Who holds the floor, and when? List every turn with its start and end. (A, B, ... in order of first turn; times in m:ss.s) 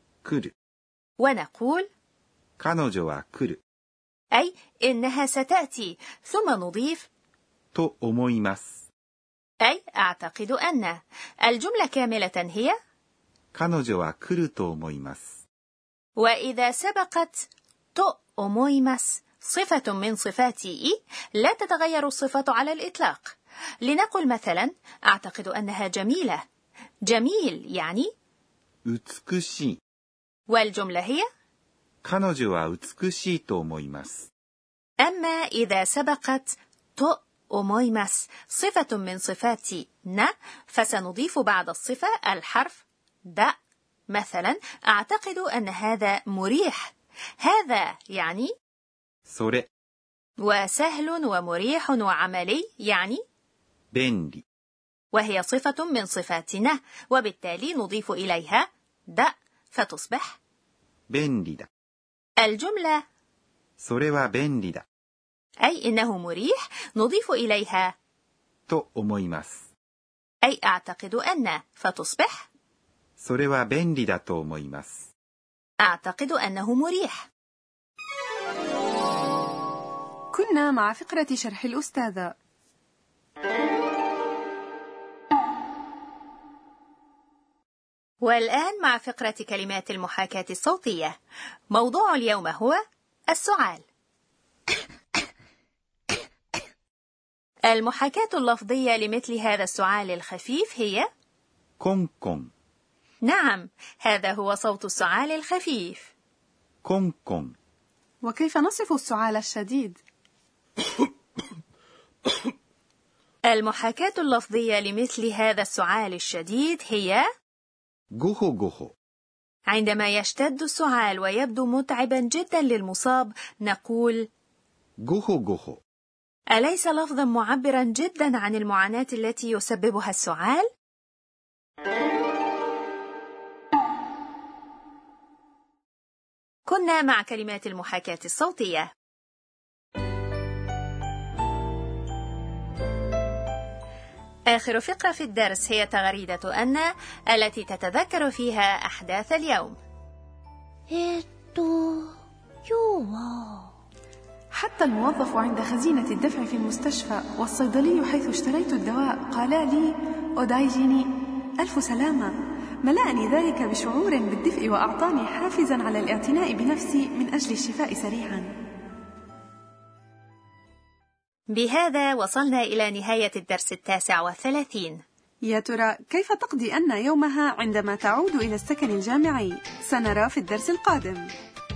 0:00.2-0:00.5 A
0:01.2-0:01.9 B
0:02.6-0:03.6 A
0:04.3-0:07.1 B
0:07.7-0:08.9 A
0:09.6-0:12.8 B
0:13.5-0:15.4 A
0:16.2-0:26.4 B
0:27.1-0:28.1 B
0:28.9-0:29.8 A
0:30.5-0:31.2 B
0:32.0-0:34.3 A
0:35.0-0:43.6 B
0:44.1-0:48.5 B
0:49.3-0:49.7 A
0:50.4-0:53.2 B
0:53.9-0:54.4 A
0:55.1-1:00.4 B
1:01.1-1:01.7 A
1:02.4-1:03.0 B
1:03.8-1:04.8 A
1:05.6-1:07.9 B
1:08.7-1:09.7 A
1:10.4-1:12.5 B
1:13.2-1:15.1 A
1:15.8-1:17.3 B
1:20.3-1:22.4 C
1:28.2-1:31.2 B
1:31.7-1:32.8 B
1:33.3-1:33.8 B
1:37.7-1:41.1 B
1:41.8-1:42.5 A
1:43.2-1:46.1 B
1:46.8-1:47.6 A
1:48.2-1:50.0 C
1:53.5-1:57.2 B
1:58.2-1:58.9 A
1:59.7-2:04.3 B
2:05.0-2:05.8 A
2:06.6-2:10.7 B
2:16.7-2:18.9 B
2:24.5-2:29.8 B
2:30.9-2:32.1 D
2:32.7-2:33.7 D
2:34.5-2:42.3 C
2:42.8-2:48.5 C
2:51.5-2:55.0 B
2:55.4-3:01.3 C